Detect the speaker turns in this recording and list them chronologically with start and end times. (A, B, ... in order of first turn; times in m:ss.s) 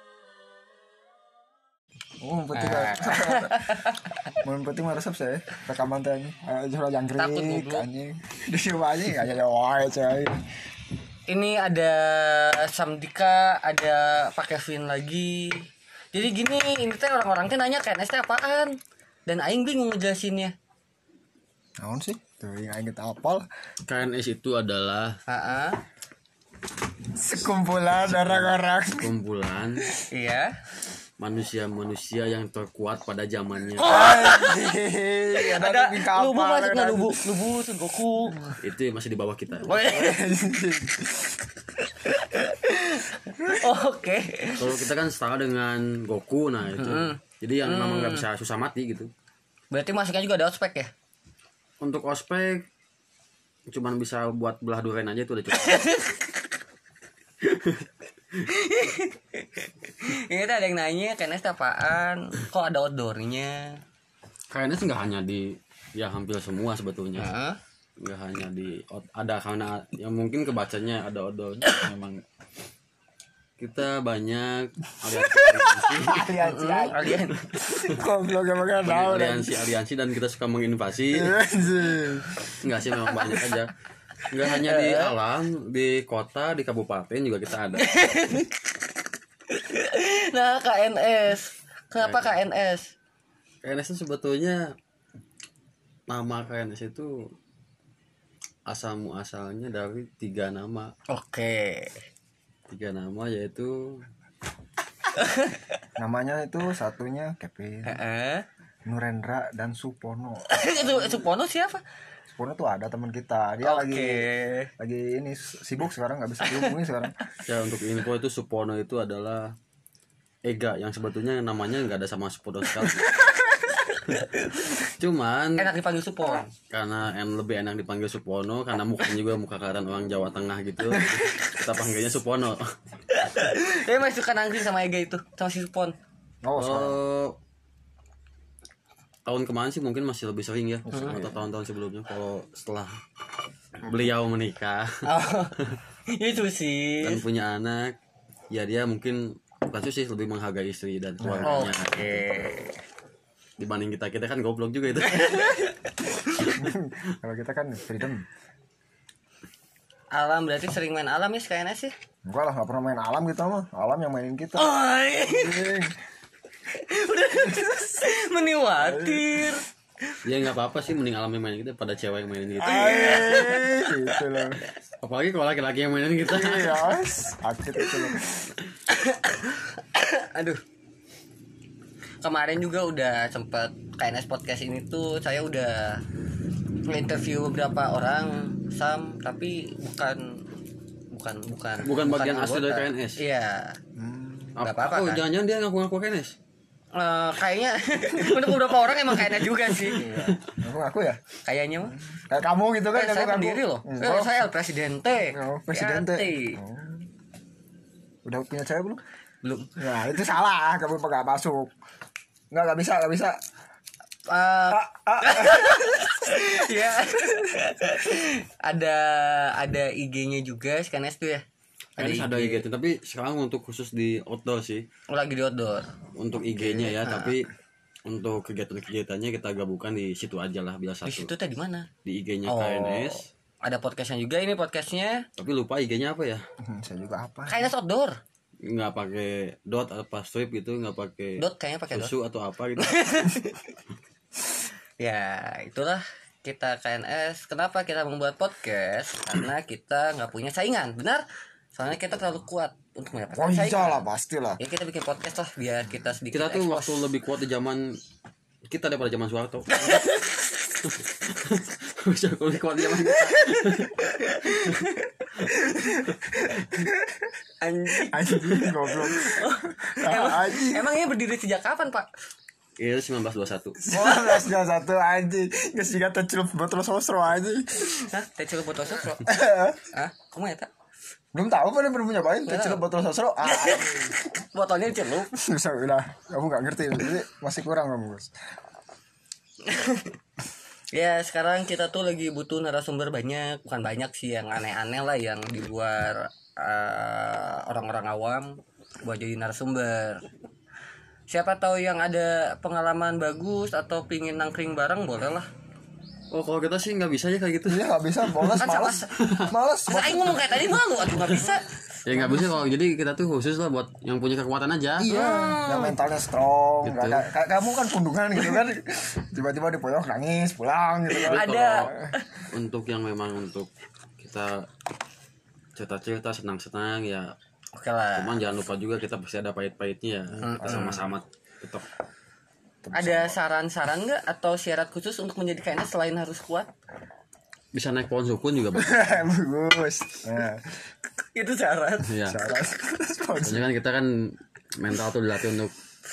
0:02.2-0:03.7 A
0:02.6-0:04.1 B
0:04.4-0:10.4 A
0:07.2-0:07.9 B
0:11.3-0:15.6 B
0:16.1-0:20.5 B
0:21.8-0:23.4 A
0:23.8-0:25.2 C
0:25.3-0:25.8 B
0:27.1-0:29.1 A
0:28.2-0:29.8 C
0:30.1-0:30.5 B
0:31.2-0:33.9 C
0:33.8-0:34.6 B
0:33.8-0:37.2 A
0:35.4-0:38.6 B
0:38.3-0:38.5 A
0:38.6-0:39.9 C
0:39.6-0:40.4 B
0:39.7-0:41.4 A
0:42.0-0:44.9 B
0:44.6-0:49.1 C
0:46.8-0:48.3 B
0:49.7-0:50.9 B
0:51.8-0:52.6 C
0:53.7-0:55.8 C
0:55.5-0:56.3 B
0:57.4-0:57.8 C
0:58.4-1:03.8 B
1:04.5-1:07.3 C
1:07.2-1:07.6 B
1:08.0-1:12.2 C
1:13.6-1:16.3 C
1:15.1-1:19.6 A
1:16.4-1:17.4 B
1:18.8-1:21.4 C
1:21.1-1:22.5 A
1:22.6-1:23.7 C
1:23.3-1:23.5 B
1:24.3-1:27.9 C
1:24.4-1:25.1 B
1:27.7-1:28.6 B
1:29.5-1:32.9 B
1:32.0-1:32.4 C
1:33.6-1:34.6 C
1:36.1-1:37.2 C
1:38.7-1:40.9 C
1:41.1-1:42.0 B
1:42.7-1:44.0 C
1:45.2-1:45.6 B
1:46.0-1:48.0 A
1:47.8-1:48.4 B
1:48.8-1:51.3 A
1:50.5-1:51.8 B
1:52.3-1:57.1 A
1:53.6-1:54.7 B
1:56.4-1:56.7 B
1:57.4-1:59.5 C
2:00.4-2:03.2 C
2:04.1-2:04.6 B
2:04.1-2:05.7 C
2:05.6-2:06.5 B
2:06.7-2:12.6 C
2:13.1-2:15.9 B
2:16.4-2:17.0 A
2:16.6-2:17.3 C
2:19.2-2:23.0 C
2:20.8-2:21.4 A
2:20.9-2:21.2 B
2:23.8-2:24.9 C
2:25.0-2:25.5 B
2:26.1-2:27.2 B
2:27.0-2:28.0 C
2:28.5-2:32.4 C
2:31.2-2:31.7 A
2:31.4-2:32.8 B
2:33.6-2:35.7 C
2:35.2-2:35.7 B
2:36.5-2:38.2 A
2:40.1-2:41.9 B
2:42.2-2:45.9 A
2:44.6-2:45.7 B
2:46.7-2:49.6 B
2:48.8-2:49.3 A
2:50.2-2:53.4 C
2:52.6-2:54.6 A
2:52.6-2:54.4 B
2:55.0-2:57.0 C
2:56.2-2:58.3 A
2:58.9-3:00.6 B
3:02.2-3:06.0 B
3:06.8-3:10.4 B
3:11.1-3:13.8 B
3:11.8-3:13.2 C
3:14.0-3:14.6 A
3:14.6-3:16.3 C
3:14.6-3:15.2 B
3:16.9-3:20.0 B
3:18.4-3:20.4 C
3:19.9-3:21.2 A
3:21.4-3:22.0 B
3:22.1-3:24.5 A
3:22.9-3:26.6 B
3:25.3-3:27.0 A
3:28.2-3:29.0 A
3:29.4-3:29.8 B
3:29.8-3:31.7 A
3:32.5-3:33.4 A
3:34.3-3:41.4 B
3:34.7-3:36.2 A
3:42.0-3:42.6 B
3:42.0-3:44.8 C
3:45.1-3:45.9 B
3:46.2-3:47.5 C
3:46.6-3:47.3 B
3:48.0-3:51.3 C
3:51.0-3:51.9 B
3:52.0-3:53.3 C
3:52.4-3:55.2 B
3:55.4-3:56.4 C
3:56.6-3:57.7 A
3:57.5-3:58.2 B
3:58.6-4:03.0 C
4:01.4-4:02.1 B
4:02.8-4:03.6 B
4:05.0-4:14.0 B
4:13.3-4:14.6 A
4:14.6-4:17.0 B
4:16.3-4:17.8 C
4:18.7-4:24.0 C
4:19.7-4:20.3 B
4:24.0-4:26.0 B
4:26.1-4:27.3 A
4:27.6-4:32.1 B
4:28.0-4:30.9 A
4:32.8-4:33.8 C
4:33.8-4:38.0 A
4:33.9-4:34.5 B
4:38.0-4:39.3 B
4:39.2-4:39.8 A
4:39.9-4:40.7 B
4:41.3-4:44.1 A
4:42.4-4:42.8 B
4:43.4-4:45.3 B
4:45.3-4:48.3 A
4:49.6-4:50.1 B
4:50.9-5:00.2 B
5:01.3-5:05.5 B
5:06.3-5:08.6 C
5:07.6-5:10.4 A
5:08.6-5:09.1 B
5:09.2-5:09.5 C
5:09.9-5:11.6 B
5:12.0-5:15.5 C
5:12.1-5:12.5 A
5:15.0-5:22.1 A
5:15.3-5:15.8 B
5:16.8-5:17.2 C
5:21.1-5:22.4 B
5:21.1-5:21.9 C
5:22.5-5:24.6 C
5:25.8-5:27.3 C
5:27.7-5:28.4 B
5:28.2-5:31.9 C
5:30.3-5:31.1 A
5:30.4-5:31.0 B
5:32.8-5:33.4 A
5:32.9-5:36.7 B
5:37.7-5:39.0 C
5:38.7-5:40.7 A
5:41.3-5:42.1 B
5:42.1-5:42.4 C
5:42.2-5:43.7 A
5:43.4-5:45.7 C